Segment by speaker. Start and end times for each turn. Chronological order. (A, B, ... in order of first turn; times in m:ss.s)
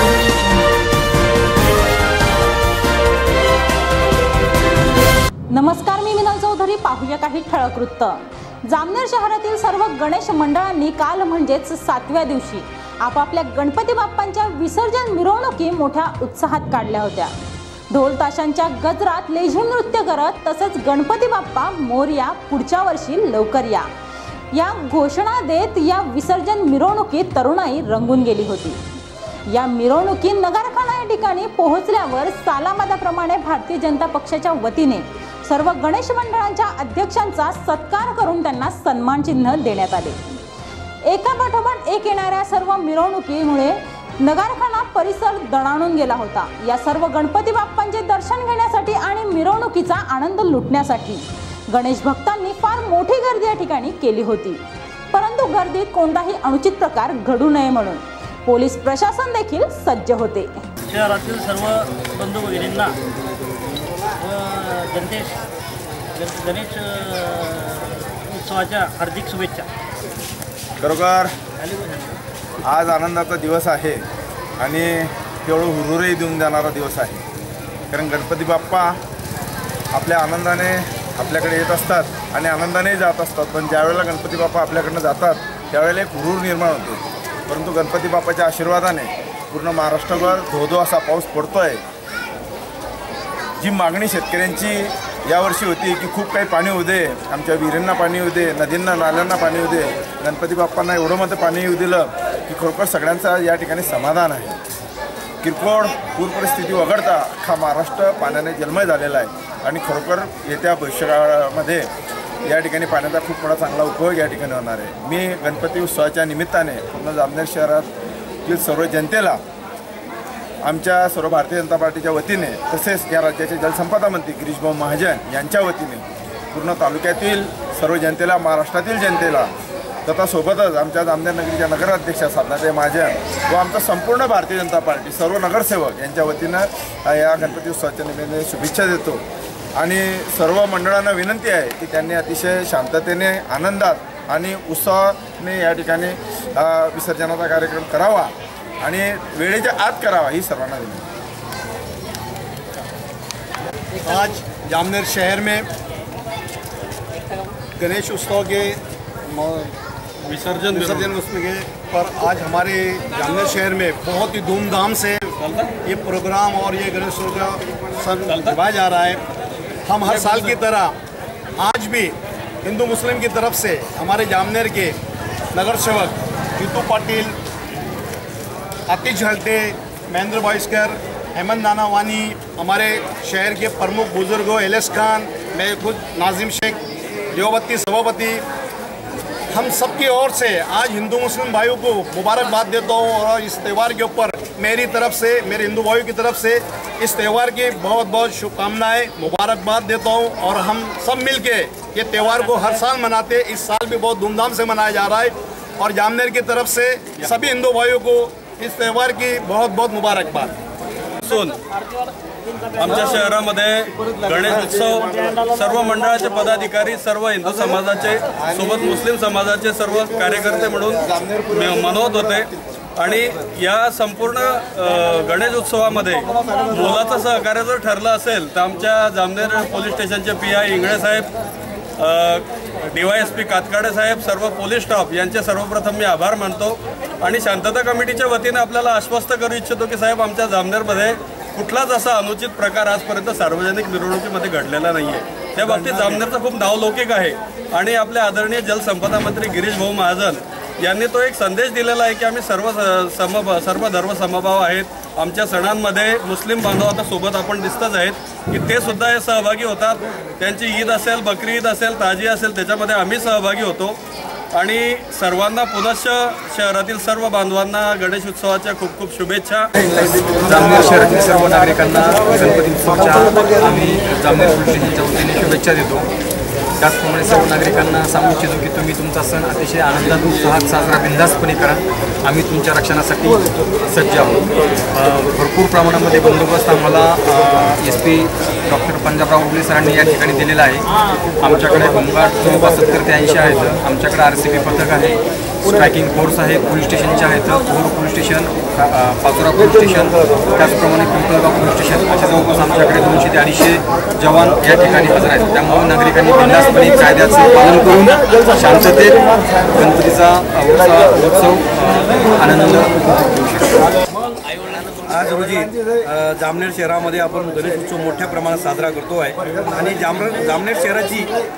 0:05.5-0:17.3 A
0:17.9-0:23.9 A
0:24.5-0:28.8 A
0:29.5-0:40.2 A
0:41.1-1:00.6 A
1:00.9-1:03.0 B
1:04.2-1:05.3 B
1:06.2-1:07.8 B
1:08.3-1:09.7 B
1:10.8-1:11.3 C
1:11.6-1:12.1 B
1:12.6-1:14.0 C
1:14.6-1:17.2 C
1:17.9-1:19.0 C
1:19.9-1:31.8 C
1:33.6-1:44.6 C
1:45.4-1:51.9 C
1:52.4-1:57.9 C
1:58.4-1:59.4 C
2:00.6-2:09.5 C
2:10.0-2:19.2 C
2:19.8-2:31.0 C
2:34.0-2:35.7 D
2:37.8-2:39.7 D
2:40.3-2:41.1 E
2:40.6-2:49.2 D
2:48.3-2:48.6 E
2:49.9-2:50.9 D
2:50.2-2:50.5 E
2:51.6-2:55.0 D
2:55.5-2:57.3 D
2:58.9-3:08.4 D
3:09.5-3:30.5 D
3:31.2-3:31.6 E
3:32.8-3:51.3 E
3:52.0-4:24.0 E
4:24.5-4:29.7 E
4:30.3-4:36.1 F
4:36.8-4:50.8 F
4:51.4-4:55.1 F
4:55.7-5:13.7 F
5:15.1-5:21.3 G